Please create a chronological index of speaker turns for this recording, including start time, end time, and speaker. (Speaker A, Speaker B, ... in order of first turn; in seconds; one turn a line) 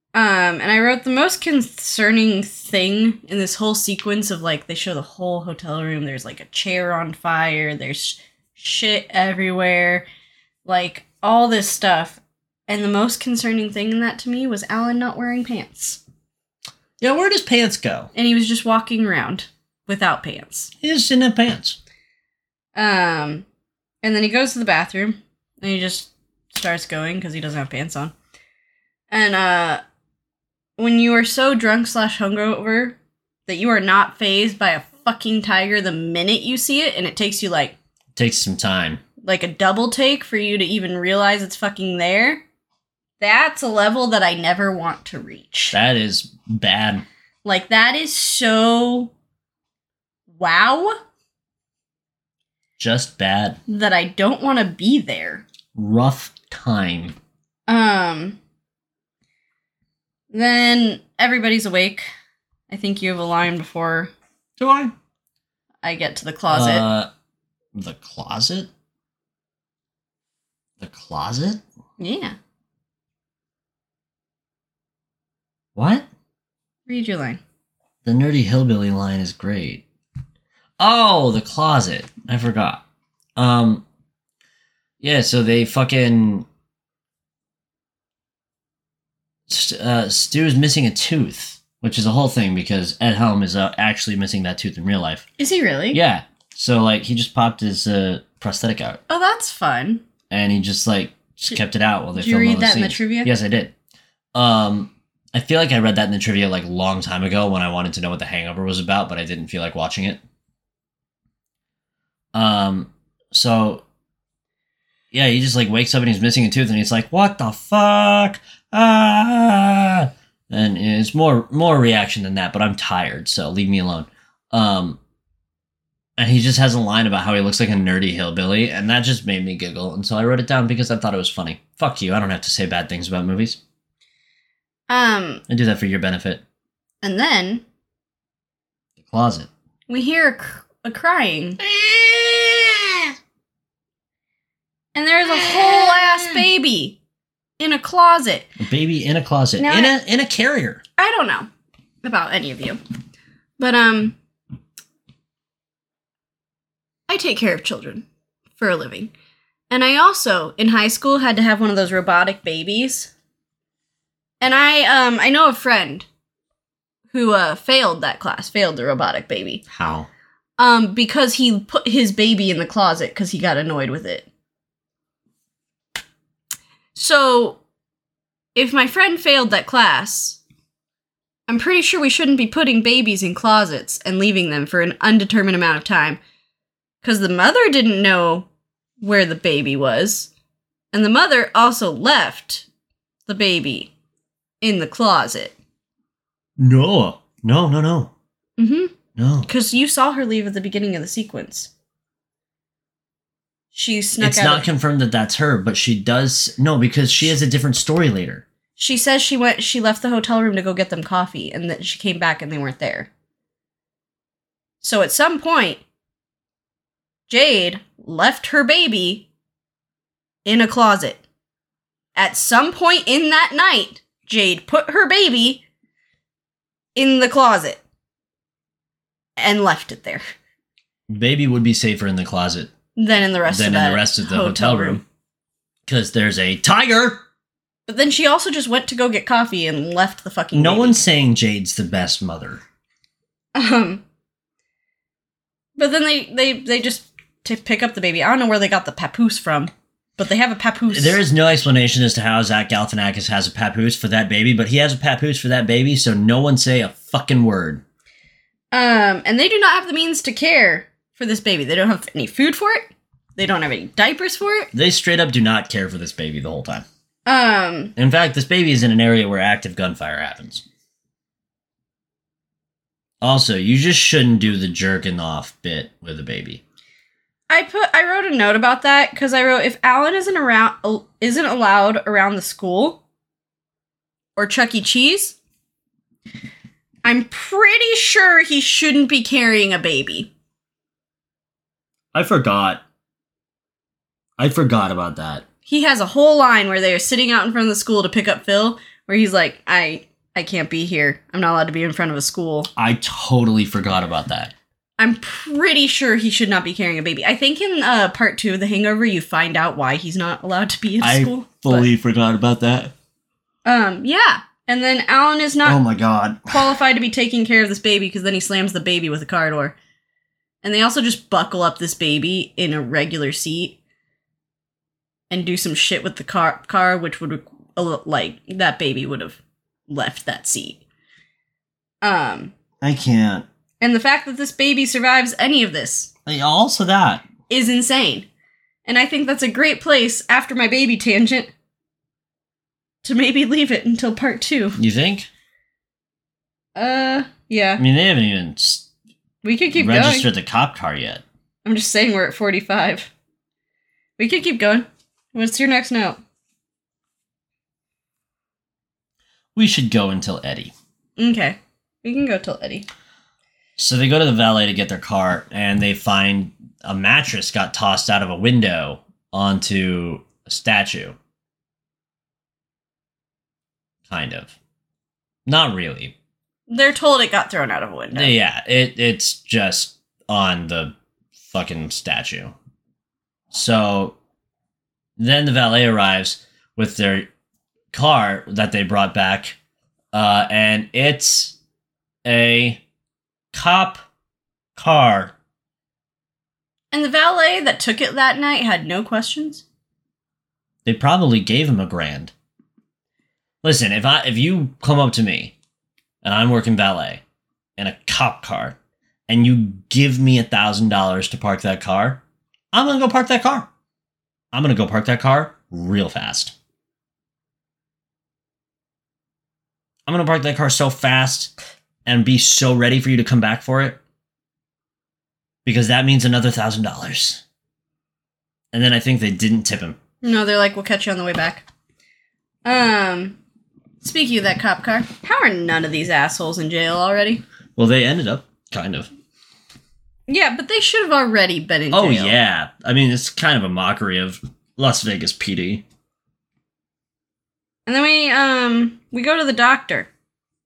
Speaker A: 0.1-10.1
Speaker A: 10.7-16.0
Speaker B: 17.0-18.1
Speaker A: 18.1-20.7
Speaker B: 20.8-21.8
Speaker A: 22.8-23.5
Speaker A: 24.0-28.1
Speaker A: 29.1-29.8
Speaker A: 30.8-37.8
Speaker B: 38.2-39.0
Speaker A: 39.2-42.4
Speaker A: 43.2-45.8
Speaker B: 45.7-47.0
Speaker A: 47.4-49.1
Speaker A: 50.3-50.9
Speaker B: 52.8-53.6
Speaker A: 53.7-55.4
Speaker B: 55.8-57.2
Speaker A: 57.7-58.4
Speaker A: 60.3-62.1
Speaker A: 62.7-64.1
Speaker B: 64.6-64.9
Speaker A: 65.8-66.9
Speaker B: 66.5-67.1
Speaker B: 67.8-68.7
Speaker B: 70.8-71.6
Speaker A: 72.0-72.4
Speaker B: 75.8-76.1
Speaker A: 76.9-77.4
Speaker B: 78.0-79.8
Speaker B: 80.8-82.8
Speaker B: 83.4-83.8
Speaker B: 85.0-86.5
Speaker B: 89.5-95.3
Speaker A: 95.4-96.0
Speaker B: 95.9-99.0
Speaker A: 99.1-100.0
Speaker B: 100.3-103.7
Speaker A: 102.2-103.3
Speaker B: 104.3-110.2
Speaker B: 112.3-113.8
Speaker B: 115.1-125.0
Speaker B: 126.2-133.6
Speaker A: 134.9-135.4
Speaker B: 135.5-136.4
Speaker A: 137.0-137.6
Speaker B: 139.0-139.5
Speaker A: 139.9-141.6
Speaker B: 141.6-143.1
Speaker A: 144.9-147.0
Speaker B: 145.4-146.3
Speaker A: 147.6-148.5
Speaker B: 148.6-150.8
Speaker A: 149.6-149.9
Speaker A: 151.0-151.5
Speaker A: 152.0-152.8
Speaker A: 153.6-154.2
Speaker A: 157.1-158.1
Speaker A: 158.6-159.1
Speaker A: 159.7-163.1
Speaker A: 164.4-166.1
Speaker A: 167.1-169.6
Speaker B: 169.7-170.1
Speaker A: 170.6-174.3
Speaker A: 176.9-177.6
Speaker A: 178.6-180.4
Speaker A: 181.5-186.2
Speaker A: 187.0-188.5
Speaker A: 189.0-190.3
Speaker A: 190.9-192.7
Speaker A: 193.3-193.9
Speaker A: 194.6-195.6
Speaker B: 196.6-198.1
Speaker A: 198.6-198.9
Speaker B: 199.2-199.5
Speaker A: 199.5-201.7
Speaker A: 203.7-204.7
Speaker B: 204.2-208.4
Speaker A: 208.8-213.1
Speaker A: 214.8-215.8
Speaker A: 217.3-219.3
Speaker A: 220.4-221.2
Speaker A: 222.2-225.6
Speaker A: 226.9-227.8
Speaker A: 229.4-230.2
Speaker B: 231.1-232.7
Speaker A: 233.0-235.0
Speaker B: 233.5-235.0
Speaker B: 235.9-237.2
Speaker A: 237.9-241.0
Speaker B: 240.5-242.6
Speaker A: 243.5-244.0
Speaker A: 245.8-251.2
Speaker B: 250.9-257.8
Speaker A: 258.7-264.7
Speaker B: 264.7-266.9
Speaker A: 267.3-267.9
Speaker B: 268.0-270.6
Speaker B: 273.2-276.6
Speaker A: 277.5-283.0
Speaker A: 284.4-285.4
Speaker A: 287.0-290.3
Speaker B: 292.1-292.8
Speaker B: 294.4-295.4
Speaker A: 295.7-302.7
Speaker B: 302.8-304.5
Speaker A: 305.0-311.9
Speaker B: 311.0-312.9
Speaker A: 313.6-315.8
Speaker B: 315.6-316.6
Speaker A: 316.5-319.8
Speaker A: 320.6-323.8
Speaker A: 325.3-330.8
Speaker A: 332.0-332.5
Speaker B: 332.8-333.5
Speaker A: 333.8-336.1
Speaker B: 336.3-337.3
Speaker A: 337.5-338.3
Speaker A: 338.9-341.5
Speaker A: 343.0-344.8
Speaker B: 344.8-345.3
Speaker A: 346.8-347.8
Speaker B: 347.8-348.9
Speaker A: 349.4-350.3
Speaker B: 349.8-351.2
Speaker A: 351.6-353.1
Speaker A: 354.2-356.2
Speaker B: 359.6-360.7
Speaker A: 361.2-362.9
Speaker B: 363.8-371.2
Speaker B: 374.1-374.6
Speaker B: 375.5-376.1
Speaker A: 376.7-378.3
Speaker B: 378.1-380.9
Speaker B: 381.5-382.6
Speaker B: 383.5-384.2
Speaker B: 385.2-387.3
Speaker B: 387.9-389.6
Speaker B: 390.1-391.6
Speaker B: 392.2-392.8
Speaker B: 393.5-394.0
Speaker B: 394.8-395.4
Speaker A: 396.9-399.6
Speaker B: 400.9-402.3
Speaker B: 403.6-405.6
Speaker B: 406.2-407.2
Speaker B: 407.8-408.8
Speaker B: 409.3-413.7
Speaker B: 414.5-416.5
Speaker B: 420.1-421.5
Speaker B: 422.1-424.0
Speaker B: 425.7-427.4
Speaker B: 428.7-430.0
Speaker A: 430.2-431.6
Speaker A: 432.6-433.4
Speaker A: 434.0-437.4
Speaker B: 437.8-439.1
Speaker A: 440.3-442.4
Speaker B: 441.9-445.8
Speaker A: 447.9-450.1